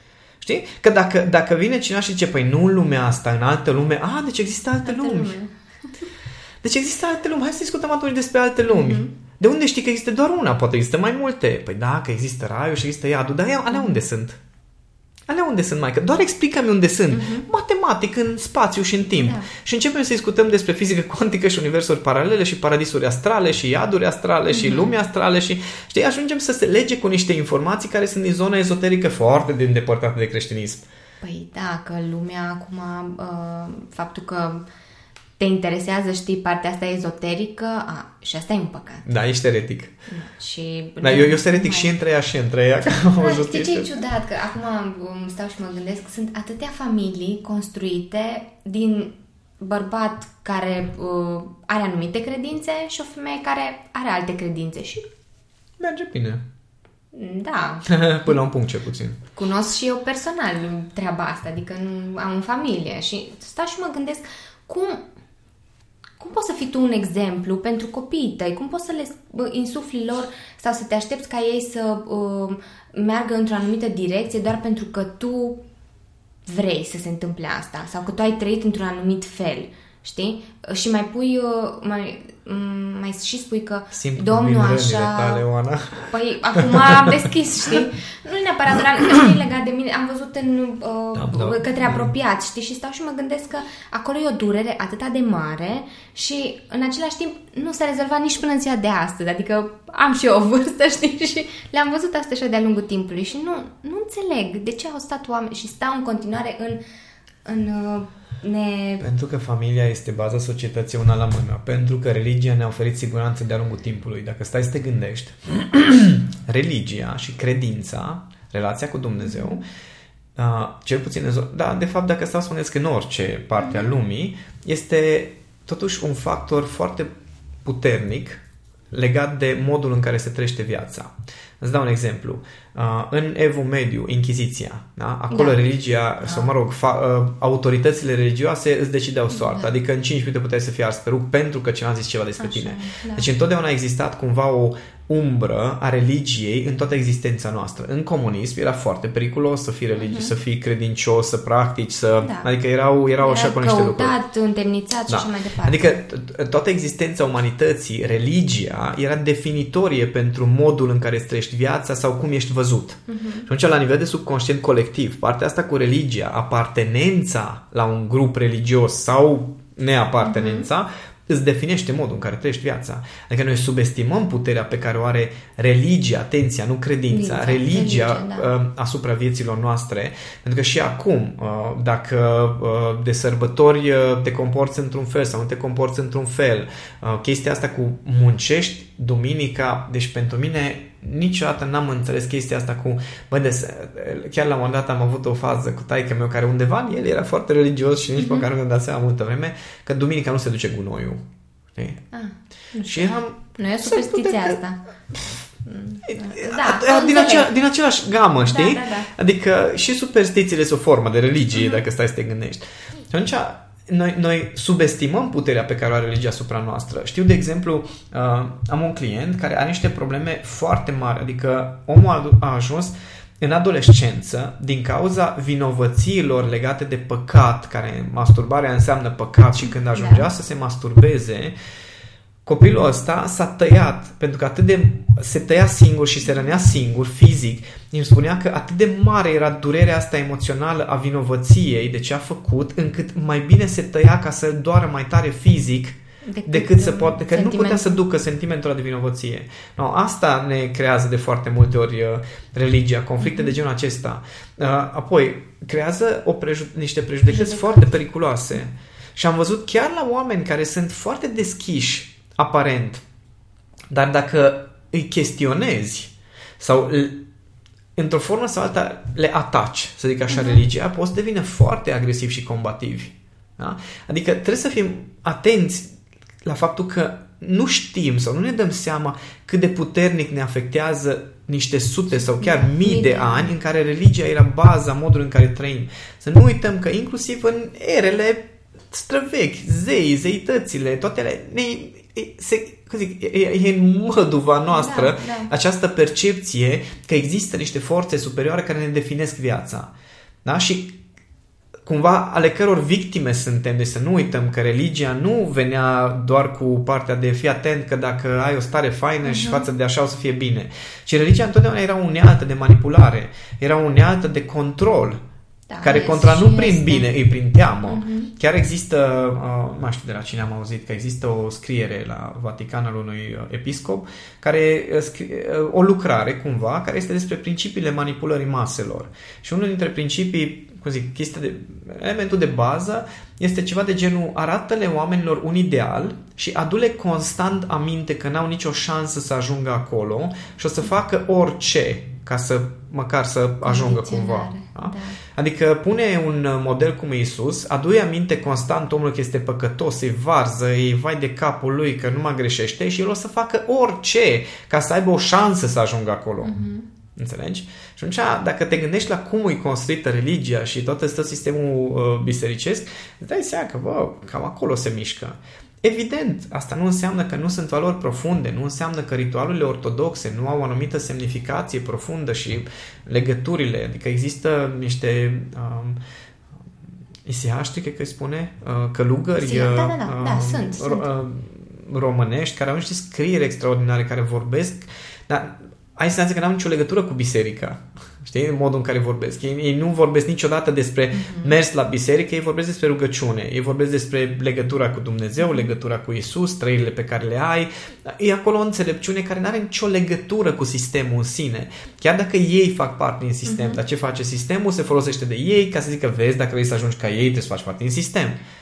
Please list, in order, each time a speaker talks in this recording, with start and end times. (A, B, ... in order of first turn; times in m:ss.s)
0:00.4-0:05.4 A
0:04.8-0:05.5 B
0:06.6-0:14.4 A
0:08.7-0:09.1 B
0:13.7-0:14.0 B
0:15.3-0:30.8 A
0:17.1-0:17.5 B
0:19.2-0:19.5 B
0:24.5-0:24.9 B
0:31.2-0:34.6 B
0:35.4-0:39.0 B
0:39.0-0:39.9 A
0:40.1-0:41.9 B
0:41.0-0:43.9 A
0:42.9-0:55.1 B
0:55.8-0:56.4 A
0:57.1-0:58.3 B
0:57.8-0:59.2 A
0:59.3-1:05.0 B
1:06.2-1:15.6 B
1:16.4-1:25.4 B
1:23.9-1:27.0 A
1:26.1-1:46.8 B
1:31.1-1:32.1 A
1:47.4-1:49.0 B
1:49.0-1:59.6 A
1:59.2-1:59.6 B
2:00.4-2:07.1 A
2:03.6-2:03.9 B
2:07.6-2:34.1 A
2:15.3-2:15.6 B
2:16.2-2:16.5 B
2:19.3-2:19.7 B
2:22.4-2:23.3 B
2:29.9-2:30.3 B
2:32.2-2:32.5 B
2:33.2-2:36.0 B
2:35.1-3:21.2 A
2:43.1-2:43.5 B
2:50.2-2:50.7 B
2:57.1-2:58.5 B
3:18.2-3:18.4 B
3:21.7-3:22.0 A
3:22.1-3:24.8 B
3:22.9-3:24.6 A
3:25.6-3:27.5 B
3:26.0-3:51.5 A
3:28.4-3:29.1 B
3:31.5-3:31.8 B
3:49.6-3:50.3 B
3:52.4-4:23.0 A
4:06.2-4:08.0 B
4:13.2-4:13.6 B
4:17.3-4:17.9 B
4:23.9-4:27.2 A
4:28.0-4:35.9 A
4:30.3-4:30.6 B
4:36.4-4:59.9 A
4:42.2-4:43.5 B
4:54.7-4:55.5 B
5:00.4-5:01.0 A
5:01.8-5:15.2 A
5:09.2-5:09.7 B
5:15.7-5:17.1 B
5:15.8-5:56.6 A
5:17.9-5:18.3 B
5:43.6-5:45.2 B
5:56.4-5:56.8 B
5:57.2-6:16.0 A
6:17.2-6:48.4 A
6:19.4-6:21.1 B
6:31.1-6:31.6 B
6:35.4-6:35.7 B
6:43.4-6:43.8 B